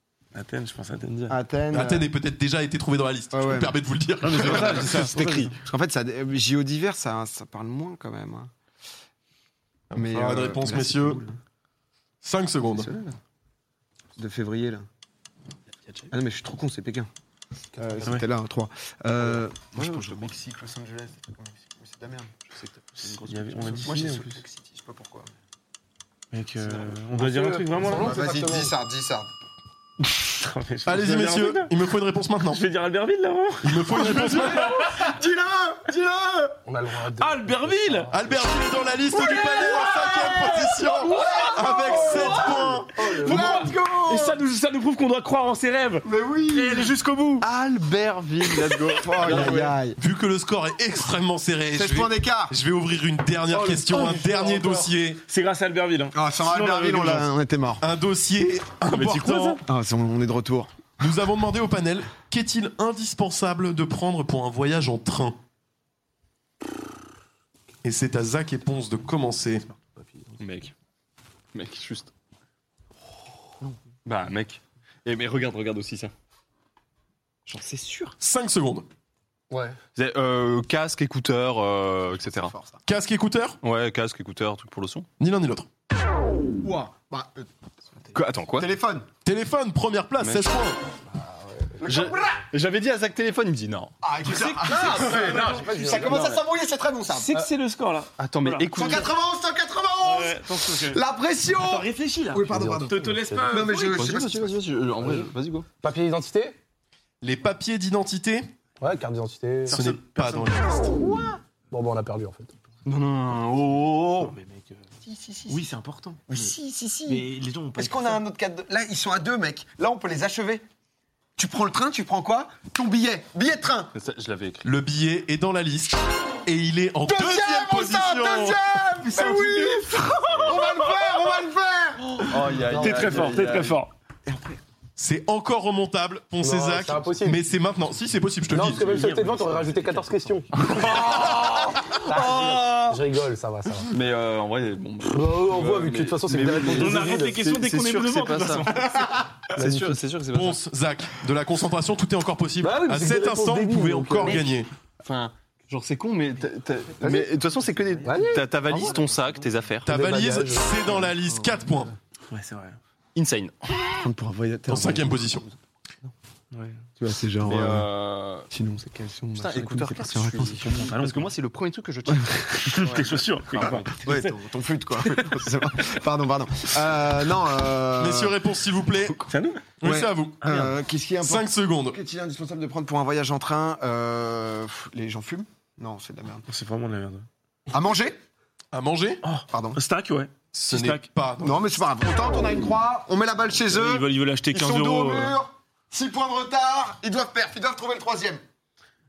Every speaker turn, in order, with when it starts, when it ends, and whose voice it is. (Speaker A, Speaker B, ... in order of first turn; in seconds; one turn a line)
Speaker A: 0.3-1.4
Speaker B: 1.3-2.1
Speaker C: 1.7-5.0
Speaker B: 3.3-3.8
Speaker A: 4.2-5.5
Speaker D: 4.2-5.5
Speaker B: 4.3-8.5
Speaker C: 9.9-11.2
Speaker B: 9.9-11.3
Speaker C: 12.2-12.9
Speaker B: 12.7-13.2
Speaker B: 14.2-14.9
Speaker B: 16.1-17.1
Speaker E: 17.8-18.2
Speaker B: 17.8-22.5
Speaker D: 19.7-20.3
Speaker D: 22.6-24.1
Speaker A: 23.2-24.4
Speaker B: 23.6-25.3
Speaker A: 26.3-28.2
Speaker E: 27.1-28.7
Speaker B: 27.8-29.3
Speaker A: 30.1-31.7
Speaker C: 30.8-32.6
Speaker A: 32.5-34.5
Speaker C: 33.6-34.9
Speaker B: 34.1-36.5
Speaker E: 36.6-38.3
Speaker A: 37.2-38.1
Speaker C: 38.1-42.9
Speaker B: 39.4-40.5
Speaker E: 41.0-43.7
Speaker B: 41.1-44.4
Speaker A: 43.1-47.5
Speaker B: 46.0-46.9
Speaker D: 47.4-49.8
Speaker B: 49.0-50.0
Speaker C: 49.2-55.2
Speaker B: 51.7-52.5
Speaker E: 53.5-54.9
Speaker A: 55.3-57.3
Speaker B: 56.1-57.8
Speaker C: 57.8-59.6
Speaker A: 58.9-59.6
Speaker B: 59.6-60.8
Speaker C: 61.0-65.4
Speaker C: 67.8-69.7
Speaker D: 70.4-70.7
Speaker D: 71.5-72.1
Speaker D: 74.0-76.1
Speaker D: 77.5-78.2
Speaker C: 78.2-78.9
Speaker E: 79.5-79.8
Speaker D: 79.9-82.5
Speaker B: 82.2-82.8
Speaker C: 82.8-83.6
Speaker D: 83.6-85.1
Speaker C: 85.2-85.7
Speaker B: 86.6-87.5
Speaker D: 88.1-88.7
Speaker B: 88.6-89.1
Speaker C: 89.2-90.8
Speaker D: 90.2-90.5
Speaker B: 91.8-92.4
Speaker D: 91.8-93.9
Speaker B: 94.0-97.4
Speaker A: 94.2-96.0
Speaker E: 94.6-96.4
Speaker D: 96.0-96.4
Speaker A: 97.1-99.0
Speaker D: 98.2-99.1
Speaker B: 98.7-104.6
Speaker A: 100.0-104.0
Speaker E: 103.0-103.6
Speaker D: 103.7-105.7
Speaker E: 105.8-106.6
Speaker C: 107.2-108.5
Speaker E: 108.8-109.8
Speaker A: 109.7-110.7
Speaker C: 109.7-110.9
Speaker E: 111.7-112.5
Speaker D: 112.8-114.3
Speaker A: 114.2-114.8
Speaker B: 115.1-115.6
Speaker A: 115.5-116.5
Speaker B: 116.3-120.6
Speaker A: 117.1-118.2
Speaker B: 121.4-123.9
Speaker D: 123.9-124.7
Speaker C: 124.6-128.6
Speaker B: 127.0-132.9
Speaker A: 129.1-131.2
Speaker D: 130.2-130.6
Speaker D: 132.2-134.6
Speaker A: 132.6-133.9
Speaker E: 132.7-133.4
Speaker C: 135.0-139.0
Speaker E: 136.4-137.4
Speaker E: 138.5-140.9
Speaker A: 138.8-140.7
Speaker D: 138.9-139.8
Speaker D: 140.5-143.0
Speaker E: 141.4-143.9
Speaker D: 143.9-148.7
Speaker E: 145.0-147.4
Speaker A: 146.7-149.3
Speaker D: 149.5-150.6
Speaker E: 149.6-150.0
Speaker C: 150.3-154.7
Speaker E: 152.6-154.4
Speaker D: 155.0-160.0
Speaker E: 157.0-157.3
Speaker E: 158.0-159.0
Speaker C: 159.8-161.9
Speaker E: 159.8-160.9
Speaker A: 162.3-162.8
Speaker D: 163.1-163.7
Speaker B: 164.0-165.4
Speaker C: 164.7-165.4
Speaker A: 166.5-166.8
Speaker B: 167.0-167.9
Speaker D: 167.4-168.5
Speaker B: 168.5-170.9
Speaker D: 169.3-173.8
Speaker A: 170.6-171.3
Speaker A: 172.6-174.3
Speaker B: 172.8-178.4
Speaker A: 175.0-175.3
Speaker C: 178.0-179.3
Speaker A: 179.3-179.6
Speaker C: 179.8-180.7
Speaker B: 179.8-186.4
Speaker A: 180.4-180.7
Speaker C: 181.2-182.0
Speaker A: 186.5-187.3
Speaker B: 187.7-188.2
Speaker C: 188.7-189.2
Speaker A: 189.2-191.1
Speaker B: 189.5-189.8
Speaker C: 190.5-191.6
Speaker B: 191.4-198.4
Speaker A: 193.7-195.4